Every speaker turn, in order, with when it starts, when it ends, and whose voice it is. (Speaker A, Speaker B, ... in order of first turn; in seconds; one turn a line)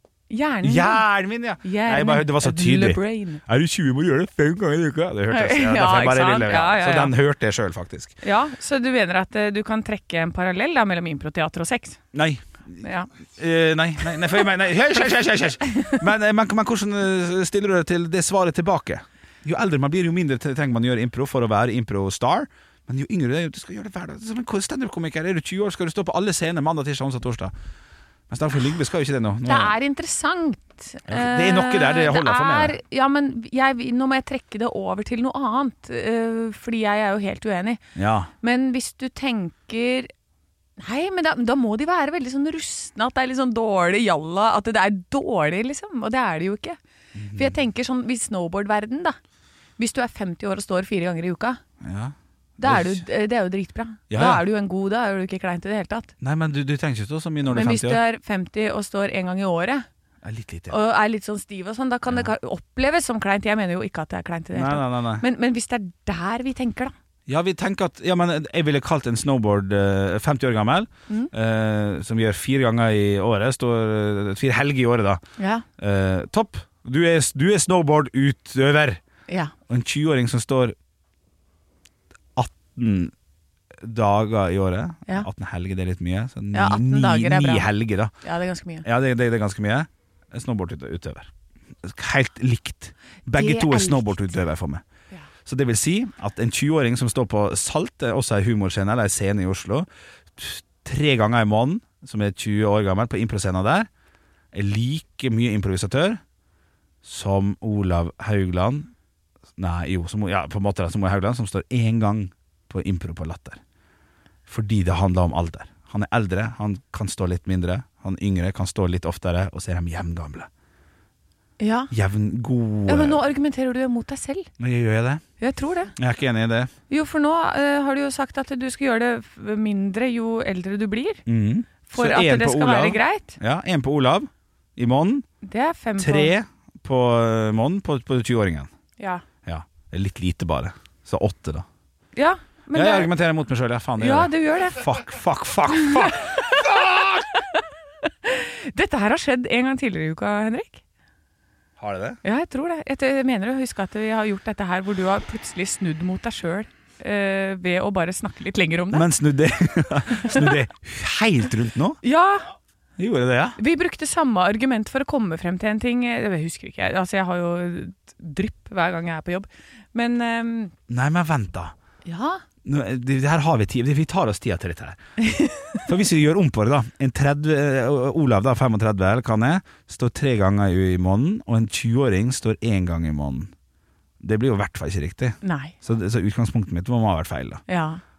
Speaker A: 0.3-1.0
Speaker B: 0.6-8.2
Speaker A: 1.6-3.4
Speaker A: 5.3-7.1
Speaker A: 8.2-12.0
Speaker B: 12.1-12.8
Speaker A: 12.8-13.1
Speaker B: 13.3-27.5
Speaker B: 28.3-29.7
Speaker A: 29.4-37.8
Speaker B: 31.1-32.8
Speaker B: 38.0-38.3
Speaker A: 38.4-40.1
Speaker A: 40.8-46.8
Speaker B: 47.1-47.5
Speaker A: 47.3-49.2
Speaker A: 49.8-51.6
Speaker B: 51.8-53.0
Speaker A: 52.6-56.1
Speaker B: 54.1-54.4
Speaker B: 56.2-58.0
Speaker A: 57.5-59.9
Speaker B: 60.2-60.8
Speaker A: 60.7-66.9
Speaker B: 64.5-65.2
Speaker B: 67.3-75.2
Speaker A: 75.4-75.6
Speaker B: 75.8-79.0
Speaker A: 79.3-79.5
Speaker B: 79.7-80.7
Speaker B: 82.3-83.1
Speaker B: 83.8-88.1
Speaker A: 86.5-87.7
Speaker A: 88.2-88.8
Speaker B: 88.8-91.3
Speaker B: 91.8-94.8
Speaker A: 93.3-94.3
Speaker B: 95.5-103.9
Speaker B: 104.5-106.2
Speaker B: 107.0-108.9
Speaker B: 109.6-113.6
Speaker B: 114.5-120.5
Speaker A: 121.6-121.9
Speaker B: 121.9-123.2
Speaker A: 122.9-124.5
Speaker B: 124.6-125.2
Speaker A: 125.4-125.9
Speaker B: 126.0-126.7
Speaker A: 126.9-131.2
Speaker B: 131.2-135.2
Speaker A: 131.9-133.4
Speaker A: 135.4-136.3
Speaker B: 136.0-138.7
Speaker B: 139.4-141.7
Speaker A: 142.1-143.1
Speaker B: 142.7-147.3
Speaker A: 144.0-144.8
Speaker A: 146.0-146.7
Speaker A: 148.2-150.8
Speaker B: 151.8-152.2
Speaker A: 152.2-159.1
Speaker B: 158.9-162.0
Speaker A: 160.2-160.5
Speaker A: 162.0-162.5
Speaker B: 163.0-163.6
Speaker A: 163.6-170.7
Speaker B: 170.9-171.7
Speaker A: 172.0-172.4
Speaker B: 172.6-175.0
Speaker A: 175.2-175.8
Speaker B: 175.8-183.5
Speaker B: 184.2-187.6
Speaker A: 185.4-185.7
Speaker A: 187.7-188.0